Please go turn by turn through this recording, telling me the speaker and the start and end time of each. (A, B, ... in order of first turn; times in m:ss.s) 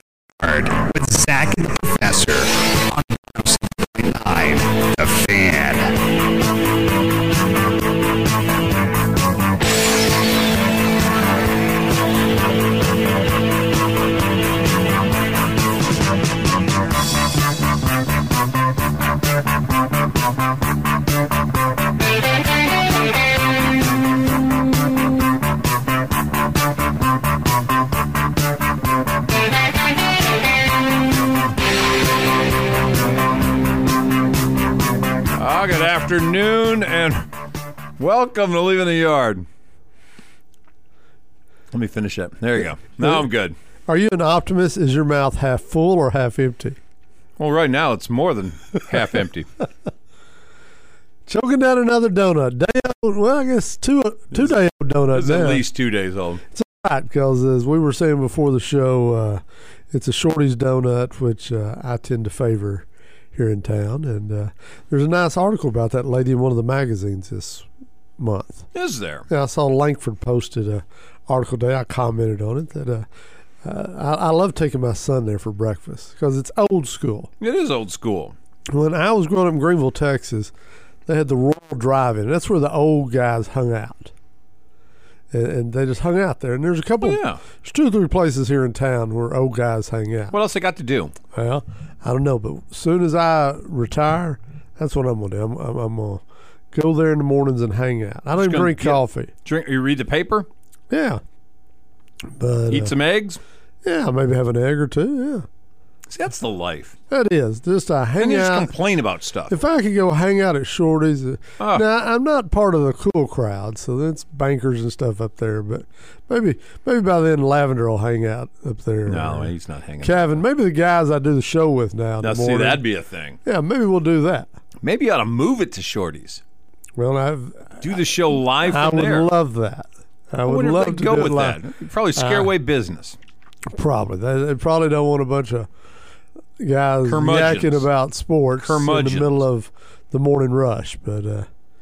0:00.4-0:06.0 A
0:35.3-0:37.2 B
0:38.0-0:39.4 B
0:41.7-0:43.5 B
0:43.9-0:46.8 C
0:47.4-0:49.5 B
0:51.3-0:55.6 C
0:55.1-0:56.4 B
0:56.5-1:07.7 C
1:08.2-1:08.7 C
1:08.7-1:09.2 B
1:09.3-1:13.0 C
1:13.6-1:17.3 C
1:17.4-1:18.3 B
1:18.7-1:20.5 C
1:21.0-1:24.1 C
1:25.3-1:30.3 C
1:27.0-1:27.4 B
1:30.3-1:31.1 B
1:31.3-1:39.3 C
1:38.3-1:40.5 B
1:40.9-1:41.2 C
1:42.4-1:42.9 C
1:42.7-1:43.4 B
1:43.8-1:45.4 C
1:46.1-1:46.9 B
1:47.1-1:48.7 C
1:48.2-1:49.6 B
1:49.5-1:59.5 C
1:51.6-1:51.8 B
1:59.1-2:00.4 B
2:00.0-2:02.8 C
2:02.2-2:03.4 B
2:03.4-2:04.5 C
2:04.8-2:06.4 B
2:07.0-2:07.9 C
2:07.8-2:09.3 B
2:08.6-2:11.6 C
2:10.4-2:13.2 B
2:12.2-2:12.5 C
2:13.7-2:15.7 C
2:16.6-2:21.5 C
2:17.0-2:17.9 B
2:18.6-2:19.4 B